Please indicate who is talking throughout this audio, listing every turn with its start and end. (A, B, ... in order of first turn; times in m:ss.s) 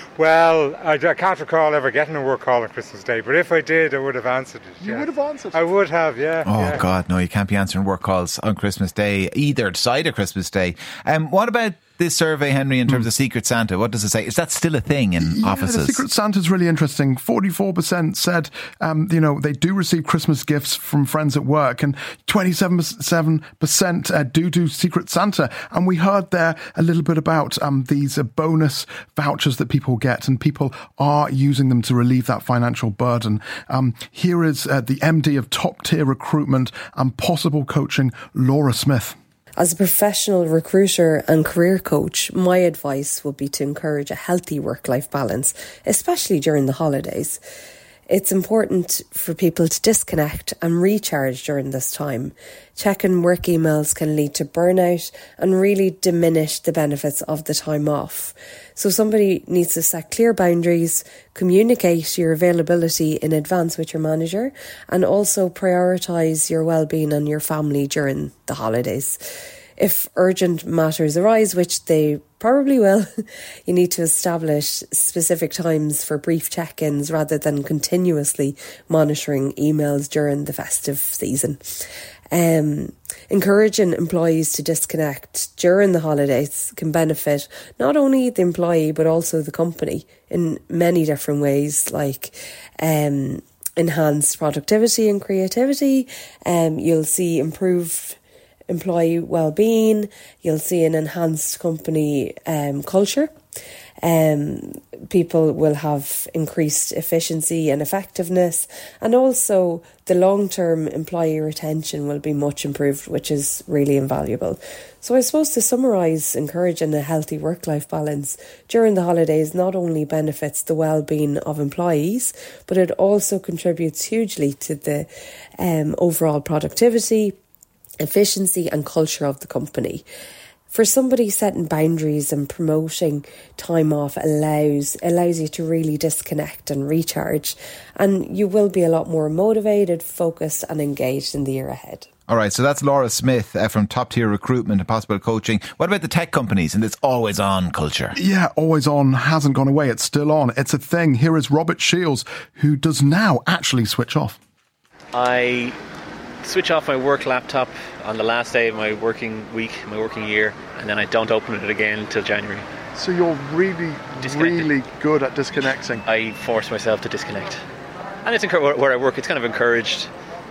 0:00.2-0:06.8 A
0:04.8-0:05.6 B
0:06.4-0:16.0 C
0:15.2-0:39.2 B
0:39.6-0:47.4 D
0:48.1-1:13.1 D
1:13.6-1:21.6 D
1:22.3-1:38.2 D
1:38.7-1:43.3 D
1:44.0-2:07.3 D
2:08.0-2:10.0 D
2:10.7-2:22.1 D
2:22.3-2:28.1 C
2:28.1-2:34.4 B
2:35.1-2:35.8 E
2:36.4-2:42.6 E
2:42.9-2:46.0 B
2:44.2-2:44.7 E
2:46.0-2:47.6 E
2:48.2-2:50.1 E